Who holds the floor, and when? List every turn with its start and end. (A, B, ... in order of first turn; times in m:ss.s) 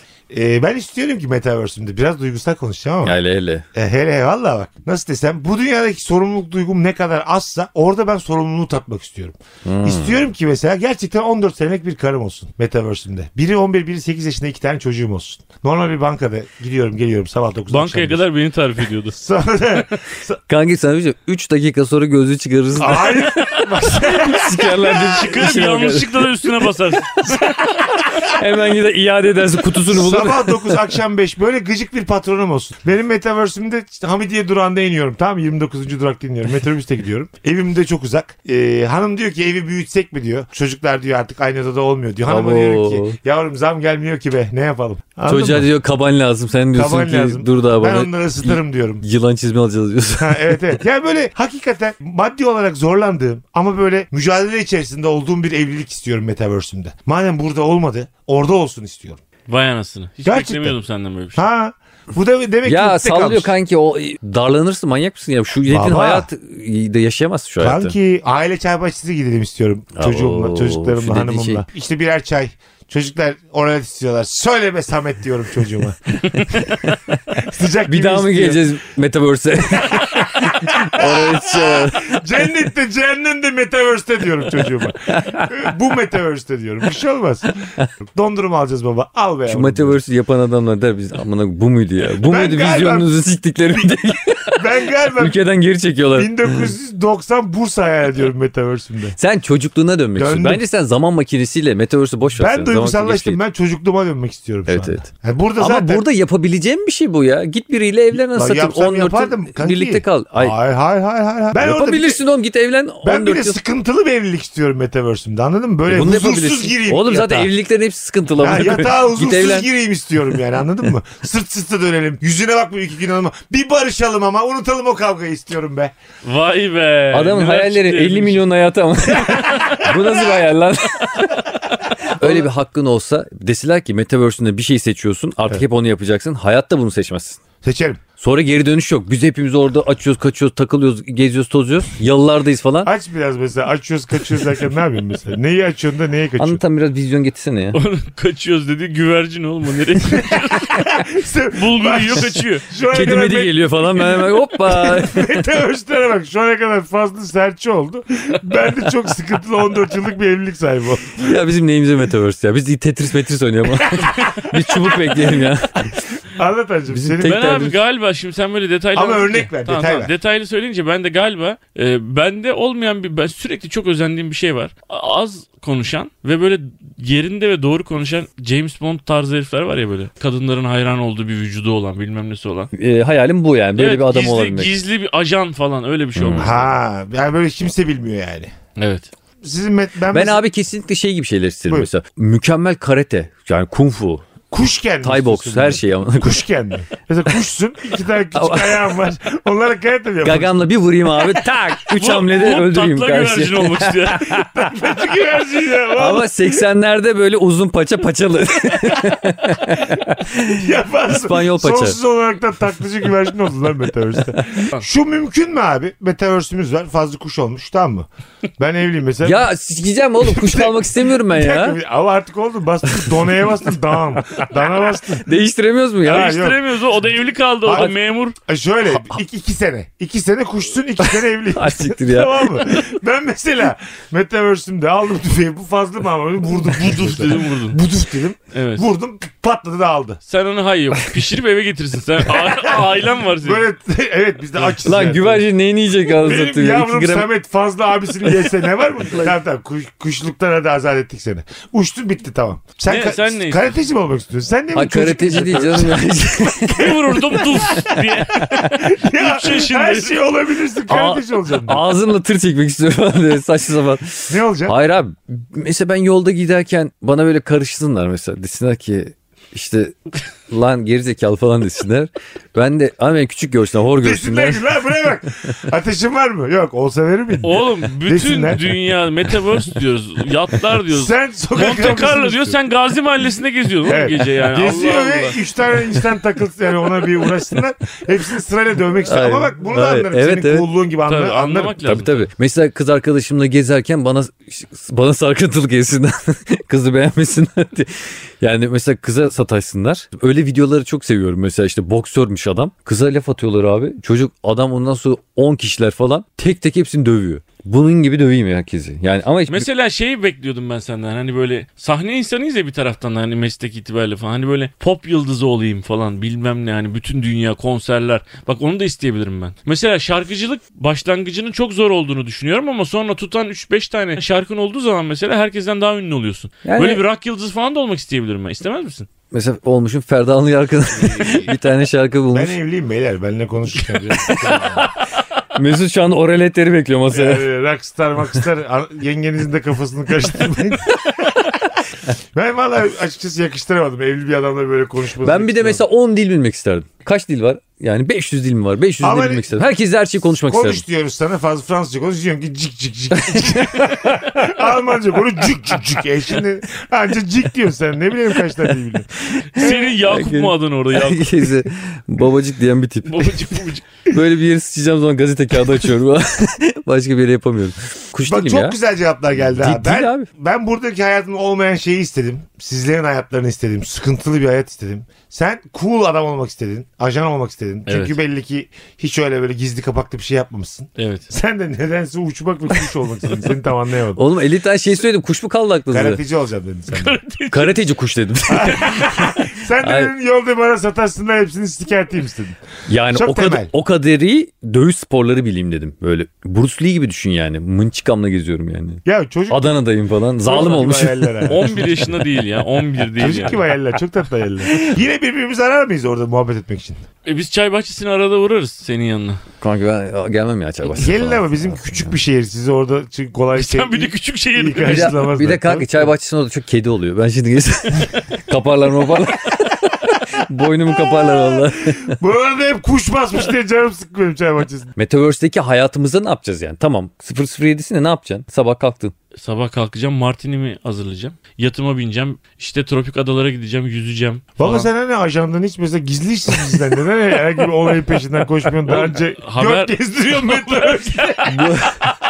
0:00.3-0:03.2 A
0:03.0-0:03.6 B
0:03.7-0:18.2 A
0:09.6-0:10.2 B
0:17.7-0:19.1 C
0:19.1-0:20.4 A
0:20.5-0:26.3 B
0:22.8-0:25.3 A
0:24.9-0:27.5 C
0:27.2-0:28.4 A
0:28.0-0:30.8 B
0:29.8-0:45.7 A
0:42.2-0:43.2 B
0:45.3-0:50.7 B
0:46.7-0:49.0 A
0:50.2-0:59.2 A
0:59.5-1:01.4 C
1:00.2-1:00.8 A
1:01.3-1:03.5 A
1:02.6-1:07.9 B
1:05.7-1:06.3 A
1:07.6-1:16.2 A
1:09.9-1:11.6 B
1:16.4-1:17.2 B
1:17.3-1:18.7 A
1:17.9-1:22.2 B
1:19.8-1:27.5 A
1:25.1-1:25.5 B
1:28.0-1:30.0 A
1:29.5-1:36.7 B
1:32.2-1:33.1 A
1:33.7-1:34.0 A
1:34.5-1:35.4 A
1:36.1-1:39.2 A
1:39.2-1:43.4 B
1:40.2-1:40.6 A
1:42.4-1:46.0 A
1:44.7-1:45.1 B
1:45.6-1:50.6 B
1:48.1-1:52.2 A
1:51.5-1:53.6 B
1:53.0-1:57.5 A
1:55.9-1:59.7 B
1:58.4-2:05.9 A
2:06.2-2:08.4 C
2:07.1-2:11.5 B
2:09.2-2:10.2 A
2:12.0-2:17.4 B
2:12.2-2:12.5 A
2:17.6-2:18.0 A
2:18.2-2:22.9 B
2:22.8-2:26.6 A
2:26.4-2:27.8 B
2:27.7-2:31.0 C
2:30.1-2:41.4 A
2:31.5-2:32.6 C
2:32.9-2:35.4 B
2:41.2-2:45.9 B
2:43.9-2:45.3 A
2:46.3-2:47.7 A
2:46.9-2:47.8 B
2:47.2-3:02.7 C
2:48.9-2:50.1 A
3:02.7-3:04.7 B
3:03.8-3:06.7 C
3:06.2-3:06.5 B
3:06.4-3:08.5 A
3:08.8-3:09.1 C
3:09.4-3:10.4 A
3:10.1-3:14.2 B
3:14.5-3:20.6 A
3:15.0-3:16.4 B
3:18.3-3:18.9 B
3:20.2-3:24.5 B
3:21.9-3:24.3 C
3:24.2-3:26.6 A
3:25.9-3:32.0 B
3:29.9-3:39.5 A
3:39.2-3:41.8 B
3:40.2-3:45.2 A
3:42.9-3:43.3 B
3:45.2-3:46.4 B
3:46.0-3:46.6 A
3:46.0-3:48.3 C
3:47.6-3:47.9 A
3:48.4-4:00.2 A
3:51.0-3:52.9 B
3:56.7-3:57.8 C
3:58.5-3:58.8 C
4:00.3-4:03.7 C
4:02.2-4:05.4 A
4:04.8-4:07.3 B
4:06.1-4:16.5 A
4:12.9-4:13.7 C
4:14.7-4:17.0 B
4:16.7-4:20.2 C
4:17.1-4:21.8 A
4:18.4-4:18.7 B
4:20.9-4:34.6 B
4:24.3-4:24.7 A
4:34.0-4:38.6 A
4:37.4-4:45.4 C
4:40.9-4:42.6 A
4:43.8-4:51.8 A
4:49.0-4:50.7 B
4:51.1-4:52.3 C
4:51.8-5:09.7 B
5:09.5-5:29.1 C
5:26.6-5:27.0 B
5:29.3-5:32.6 B
5:30.9-5:31.5 A
5:32.3-5:34.9 A
5:35.5-5:37.5 B
5:37.1-5:41.8 A
5:42.3-5:45.8 A
5:45.2-5:50.8 B
5:49.0-5:49.6 A
5:50.4-5:59.8 A
5:53.2-5:54.0 B
5:59.3-6:03.5 B
5:59.5-6:01.5 C
6:03.0-6:03.8 C
6:04.1-6:08.8 B
6:08.2-6:24.2 A
6:09.4-6:10.3 B
6:17.9-6:18.1 C
6:21.0-6:21.2 C
6:24.2-6:26.2 B
6:25.9-6:27.2 A
6:26.9-6:27.8 C
6:27.5-6:30.1 B
6:28.5-6:32.6 A
6:32.9-6:41.9 B
6:33.1-6:33.7 A
6:39.0-6:39.8 A
6:40.4-6:41.8 A
6:41.4-6:43.6 C
6:43.2-6:47.0 A
6:47.2-6:49.4 C
6:49.6-6:51.8 B
6:50.9-6:56.1 A
6:53.5-6:55.2 C
6:54.8-7:02.2 B
7:01.1-7:04.9 A
7:05.0-7:09.1 B
7:09.4-7:14.9 C
7:14.6-7:22.1 A
7:18.9-7:21.4 C
7:21.5-7:22.0 B